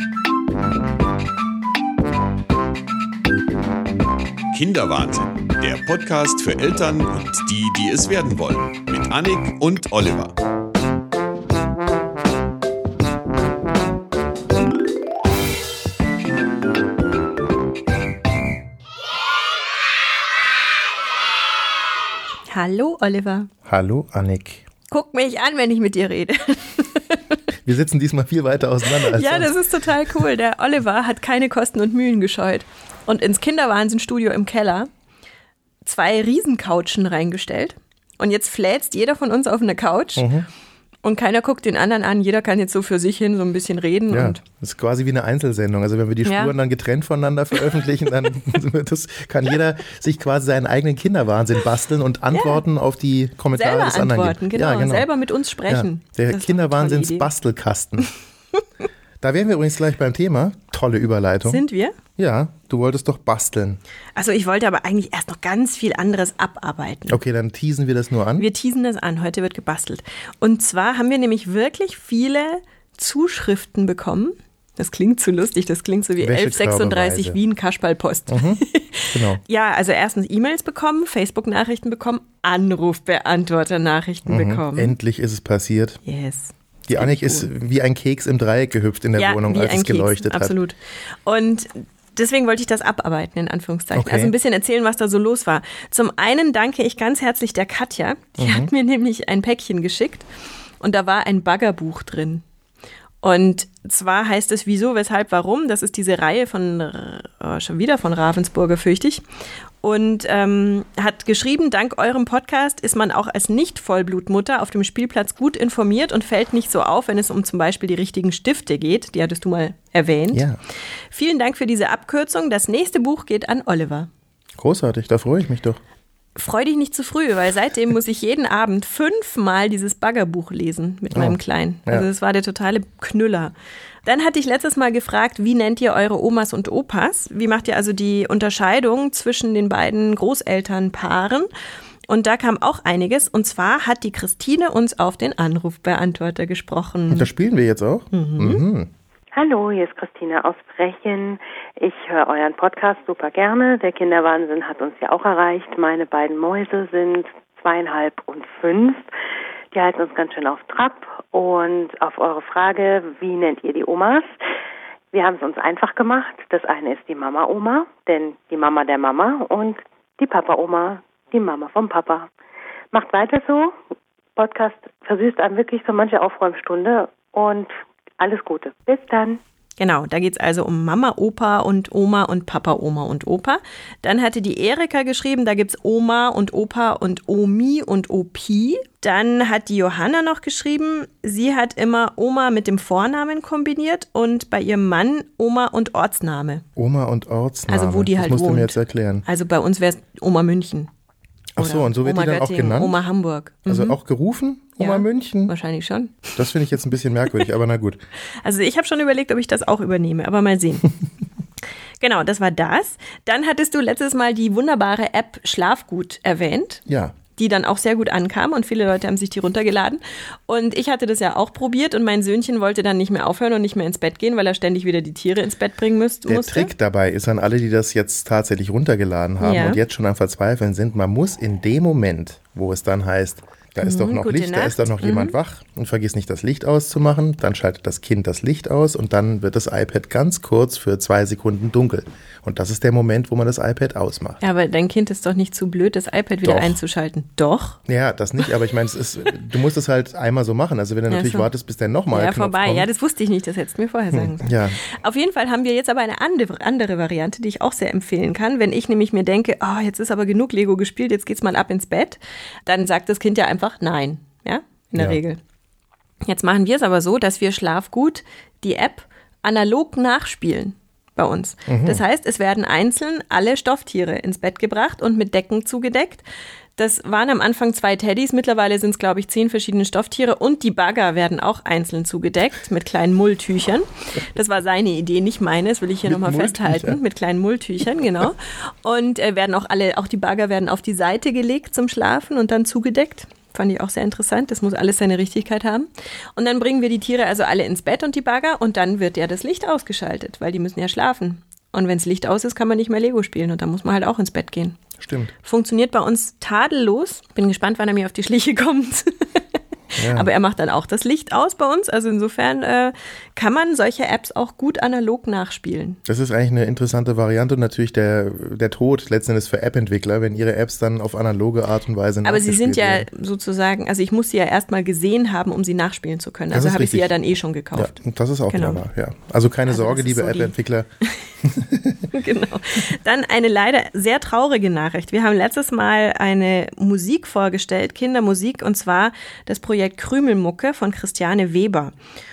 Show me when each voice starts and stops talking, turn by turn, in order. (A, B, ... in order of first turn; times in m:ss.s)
0:04.5-0:10.3 A
0:22.5-0:23.5 B
0:23.7-0:24.7 C
0:24.9-0:27.4 B
0:27.6-0:29.5 C
0:28.9-0:34.9 B
0:35.8-0:40.3 B
0:40.2-0:40.5 C
0:41.0-0:44.4 B
0:44.1-0:55.1 C
0:46.3-0:46.5 B
0:52.3-0:52.6 B
0:53.5-0:57.3 B
0:55.7-0:58.1 C
0:59.2-1:01.6 C
1:01.4-1:02.0 B
1:02.2-1:03.8 C
1:04.2-1:07.2 B
1:07.1-1:08.5 C
1:08.4-1:25.0 B
1:16.2-1:17.4 C
1:18.3-1:18.6 C
1:19.1-1:19.4 C
1:24.3-1:26.0 C
1:26.0-1:27.5 B
1:26.9-1:30.6 C
1:29.2-1:40.3 B
1:33.9-1:34.3 C
1:38.4-1:38.7 C
1:40.8-1:42.4 B
1:43.2-1:49.2 B
1:49.8-2:00.5 B
2:00.3-2:00.6 C
2:01.1-2:04.1 B
2:04.6-2:05.8 C
2:06.4-2:13.5 B
2:11.1-2:12.1 C
2:14.0-2:21.5 B
2:22.1-2:27.3 B
2:27.1-2:28.9 C
2:28.1-2:28.6 B
2:29.4-2:39.1 D
2:39.7-2:44.3 D
2:45.1-2:52.3 D
2:52.9-2:53.8 D
2:54.4-2:59.4 D
2:59.8-3:16.6 B
3:16.8-3:19.2 C
3:17.7-3:20.9 B
3:21.6-3:23.0 C
3:21.6-3:24.0 B
3:23.7-3:25.5 C
3:24.8-3:26.5 B
3:26.4-3:28.0 C
3:28.4-3:30.9 B
3:32.0-3:36.8 B
3:36.9-3:37.2 C
3:37.4-3:46.7 B
3:46.3-4:04.4 C
3:49.4-3:49.8 B
3:53.8-3:55.4 B
4:04.4-4:07.8 B
4:06.4-4:06.8 C
4:07.9-4:12.9 C
4:11.1-4:11.5 B
4:12.1-4:25.4 B
4:14.1-4:14.8 C
4:26.2-4:36.2 B
4:31.7-4:32.0 C
4:36.8-5:04.8 B
4:46.0-4:47.0 C
5:05.0-5:05.3 C
5:05.4-5:09.4 B
5:10.0-5:10.3 C
5:10.0-5:16.0 B
5:16.0-5:23.1 C
5:22.2-5:28.0 B
5:26.5-5:27.1 C
5:27.8-5:30.9 C
5:28.5-5:28.8 B
5:29.7-5:30.5 B
5:31.4-5:32.1 C
5:32.1-5:41.9 B